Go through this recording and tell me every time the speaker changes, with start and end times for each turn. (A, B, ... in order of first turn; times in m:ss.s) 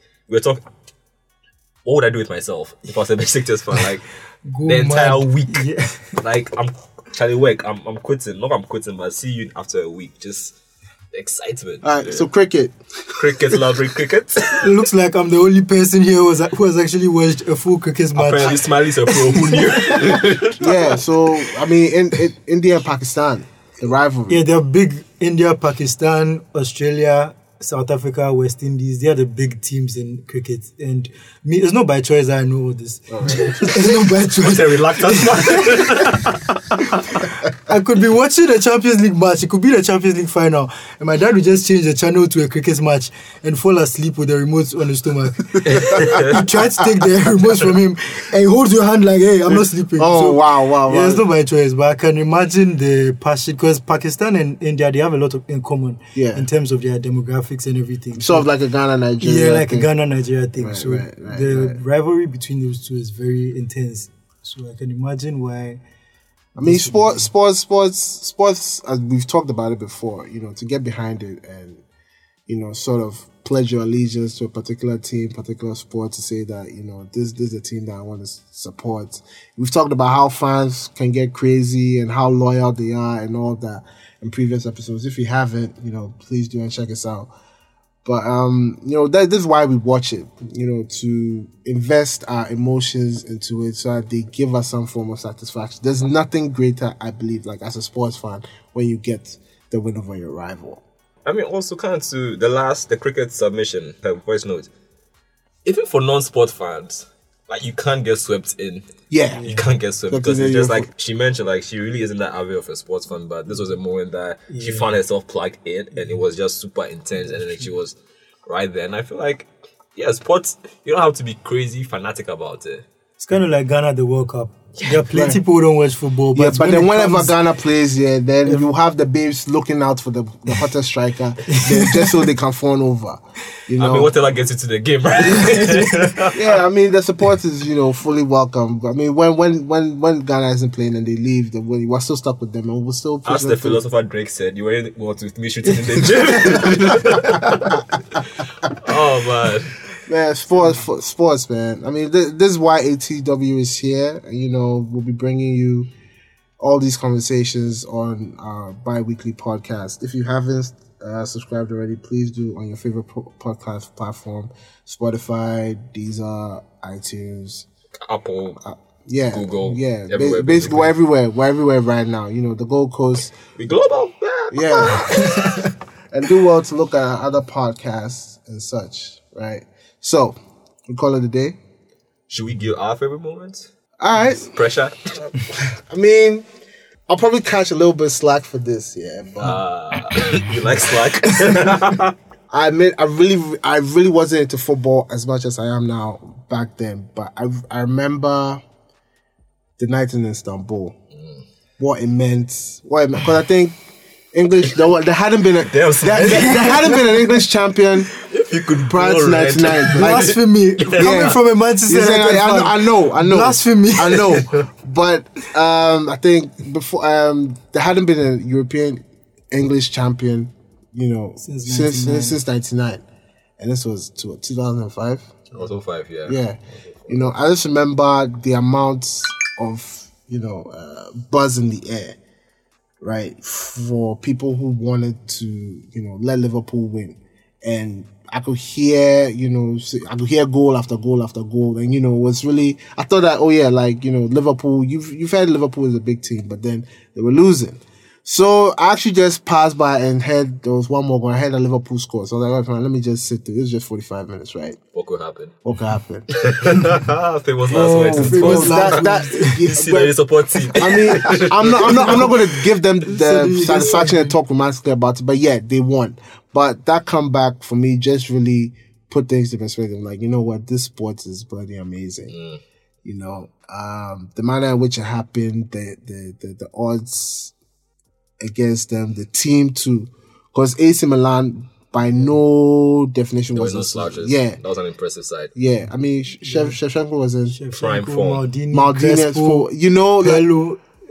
0:00.3-0:00.6 A
0:01.8-0:04.1 A
0:04.4-0:06.2 B
0:04.6-0:10.5 A
0:11.1-0:12.2 A
0:11.8-0:12.7 C
0:13.1-0:14.7 A
0:14.6-0:20.0 B
0:18.1-0:20.8 A
0:20.6-0:24.4 C
0:24.3-0:35.7 B
0:33.1-0:33.6 C
0:34.4-0:37.2 A
0:37.6-0:58.5 B
0:45.6-0:46.5 A
0:49.5-0:51.2 C
0:56.1-0:56.5 C
0:58.2-0:59.9 C
0:59.2-1:05.8 B
1:00.6-1:01.8 C
1:06.6-1:11.8 C
1:06.6-1:07.2 B
1:12.5-1:27.3 C
1:28.0-1:40.8 C
1:41.2-1:44.7 A
1:45.6-1:48.9 A
1:49.1-1:49.4 C
1:49.3-1:49.6 B
1:49.4-2:02.8 A
1:50.1-1:50.9 C
1:54.5-1:54.9 B
1:57.3-1:57.6 B
2:03.2-2:07.3 B
2:05.1-2:05.4 C
2:06.4-2:14.1 C
2:11.5-2:12.1 B
2:13.8-2:16.5 A
2:15.4-2:15.9 B
2:16.3-2:23.8 C
2:23.2-2:29.9 A
2:30.0-2:35.9 C
2:36.6-2:47.7 C
2:48.0-2:48.6 A
2:48.6-2:53.4 C
2:49.3-2:50.9 A
2:53.6-2:55.6 A
2:54.5-2:55.4 C
2:56.1-3:00.4 C
3:00.9-3:01.6 C
3:02.3-3:03.7 A
3:04.0-3:04.5 C
3:04.2-3:05.3 A
3:05.4-3:06.5 C
3:07.1-3:09.6 C
3:09.4-3:12.1 A
3:12.5-3:18.6 C
3:19.8-3:21.0 C
3:21.8-3:23.8 C
3:24.3-3:28.1 C
3:25.6-3:27.0 A
3:28.2-3:31.3 A
3:28.9-3:30.4 C
3:29.9-3:34.5 B
3:30.9-3:43.0 C
3:41.4-3:42.4 B
3:43.6-3:45.5 C
3:45.5-3:47.3 A
3:46.2-3:52.2 C
3:53.0-4:14.8 C
4:14.9-4:15.6 A
4:15.6-4:16.4 C
4:16.4-4:22.4 A
4:17.7-4:20.1 C
4:18.2-4:19.7 B
4:20.8-4:32.4 C
4:21.4-4:22.3 B
4:23.0-4:24.3 B
4:32.3-4:32.6 A
4:33.0-4:37.5 C
4:38.4-4:44.6 C
4:43.5-4:45.5 A
4:45.6-4:47.6 C
4:46.5-4:46.7 B
4:47.5-4:49.7 B
4:47.7-4:48.5 A
4:48.7-4:50.5 C
4:50.2-4:50.8 B